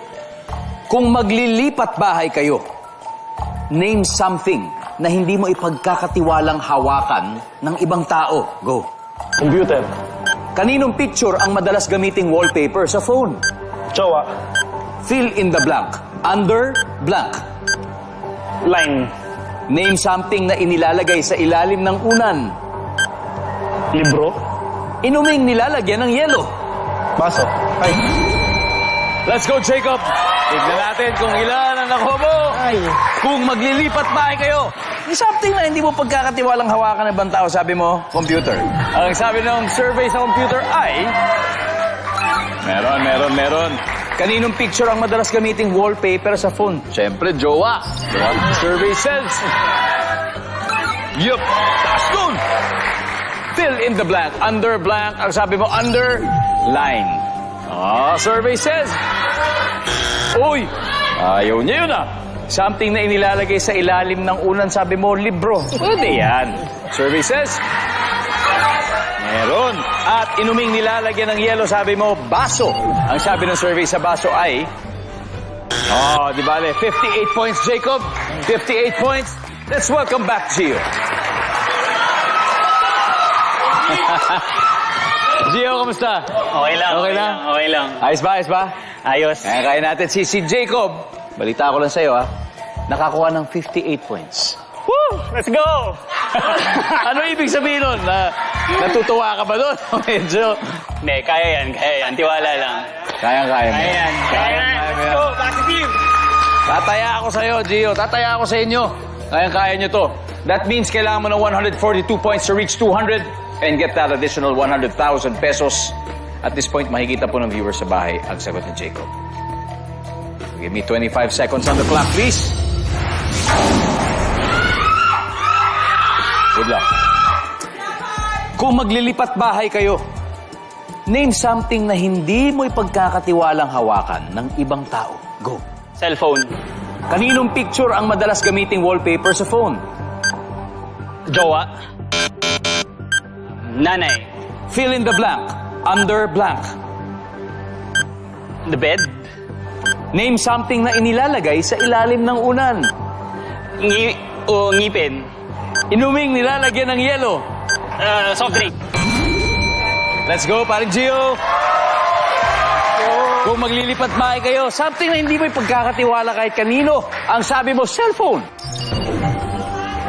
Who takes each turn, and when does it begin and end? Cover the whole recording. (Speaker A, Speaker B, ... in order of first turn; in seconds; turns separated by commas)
Speaker A: 0.9-2.6, Speaker A: 3.7-8.9, Speaker B: 9.4-9.9, Speaker A: 10.5-13.4, Speaker B: 14.0-14.3, Speaker A: 15.0-17.4, Speaker B: 18.7-19.1, Speaker A: 19.7-22.5, Speaker B: 23.9-24.4, Speaker A: 25.0-26.5, Speaker B: 27.2-27.5, Speaker A: 29.2-41.1, Speaker A: 42.6-49.5, Speaker A: 51.1-52.4, Speaker A: 53.5-59.0, Speaker A: 60.3-67.6, Speaker C: 65.9-66.4, Speaker A: 69.2-74.7, Speaker A: 75.9-80.8, Speaker A: 83.8-84.5, Speaker A: 85.3-87.4, Speaker C: 86.5-88.0, Speaker A: 88.0-88.7, Speaker C: 89.0-89.6, Speaker A: 89.4-92.3, Speaker A: 92.9-94.6, Speaker C: 94.8-96.6, Speaker A: 96.3-100.6, Speaker C: 101.0-102.9, Speaker A: 103.1-105.3, Speaker C: 103.7-106.0, Speaker A: 106.7-119.1, Speaker A: 120.5-122.6, Speaker A: 126.5-126.8, Speaker A: 128.6-130.0, Speaker A: 131.1-135.6, Speaker C: 136.0-136.5, Speaker A: 137.1-139.8, Speaker C: 141.3-141.7, Speaker C: 143.6-144.3, Speaker A: 144.7-146.7, Speaker C: 148.6-149.3, Speaker A: 150.1-152.9, Speaker C: 153.8-155.3, Speaker A: 155.9-157.4, Speaker C: 157.9-158.7, Speaker A: 160.2-161.4, Speaker A: 163.2-168.4